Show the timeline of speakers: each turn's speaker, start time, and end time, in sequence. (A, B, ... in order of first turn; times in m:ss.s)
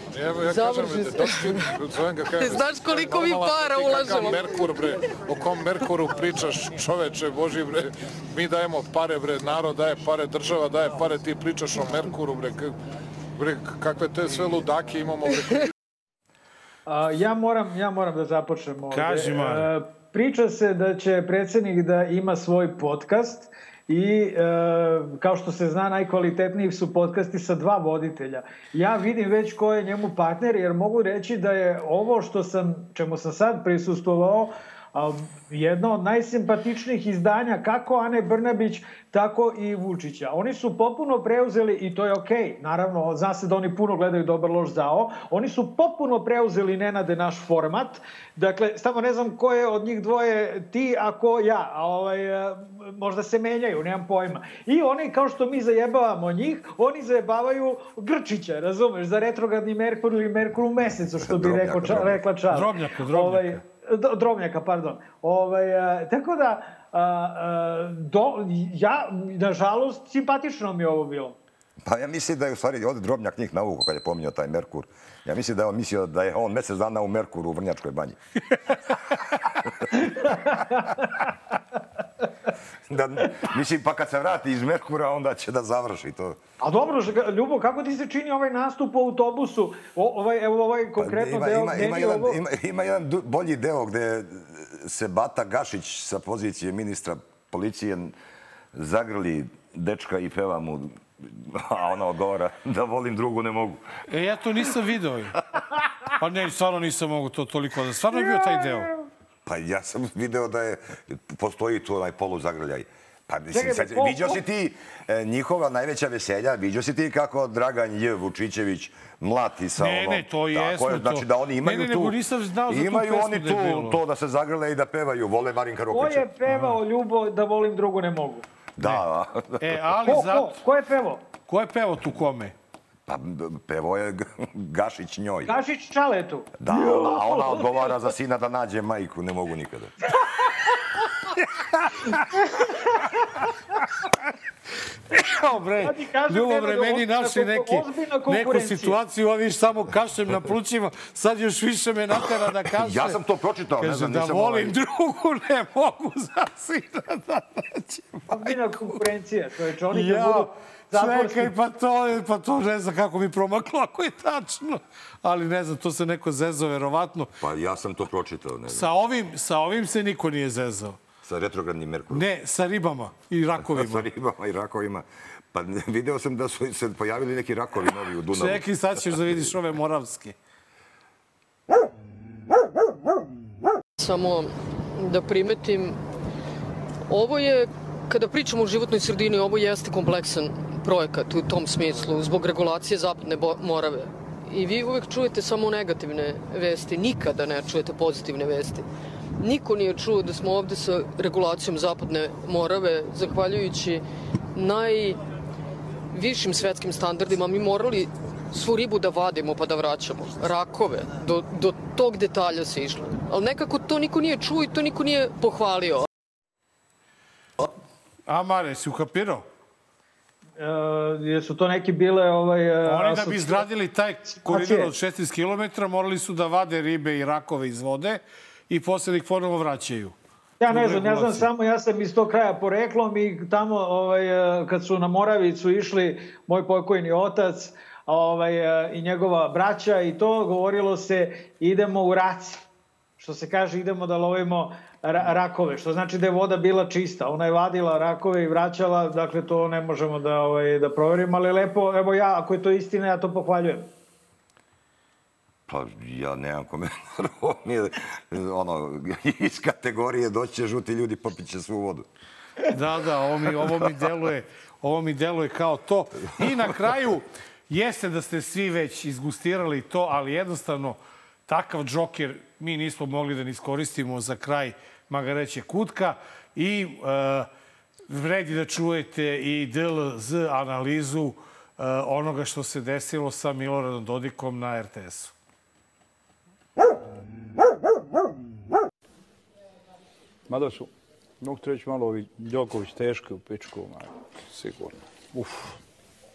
0:00.1-0:12.7 A
0:00.4-0:01.7 B
0:02.3-0:04.6 B
0:13.4-0:15.6 A
0:16.9-1:11.4 C
0:18.9-0:19.7 D
1:01.2-1:02.2 E
1:02.5-1:03.6 D
1:11.8-1:18.2 E
1:19.9-1:21.0 C
1:22.9-1:26.4 E
1:26.6-1:32.4 C
1:31.0-1:38.1 E
1:38.7-1:43.8 E
1:44.1-1:45.4 D
1:46.2-1:48.9 D
1:49.4-2:02.2 E
1:53.5-1:54.4 C
1:59.8-2:04.0 D
2:02.7-2:06.3 E
2:05.9-2:08.4 C
2:06.5-2:06.8 D
2:08.8-2:09.8 E
2:08.8-2:09.0 D
2:09.6-2:10.6 D
2:10.0-2:11.2 C
2:11.5-2:12.5 D
2:13.1-2:15.5 E
2:15.4-2:17.8 C
2:16.6-2:19.9 E
2:21.7-2:22.2 D
2:25.1-2:33.2 D
2:25.8-2:29.0 C
2:32.6-2:34.7 E
2:33.8-2:39.0 D
2:38.3-2:41.5 C
2:39.9-2:47.3 D
2:47.4-2:48.9 E
2:48.7-2:51.0 D
2:51.2-2:52.2 E
2:52.1-2:54.1 D
2:53.6-2:59.5 E
2:58.3-3:00.4 D
3:04.0-3:06.0 B
3:07.1-3:18.8 B
3:19.4-3:24.0 B
3:24.5-3:25.2 B
3:26.1-3:36.1 B
3:38.3-3:39.4 D
3:40.6-3:43.6 C
3:42.8-3:50.1 D
3:44.3-3:44.9 C
3:50.6-4:02.6 C
3:50.7-3:51.5 D
4:03.2-4:13.9 C
4:15.7-4:22.0 E
4:22.7-4:37.5 D
4:26.2-4:26.7 E
4:38.1-4:45.3 D
4:50.5-4:54.1 F
4:55.3-4:55.8 F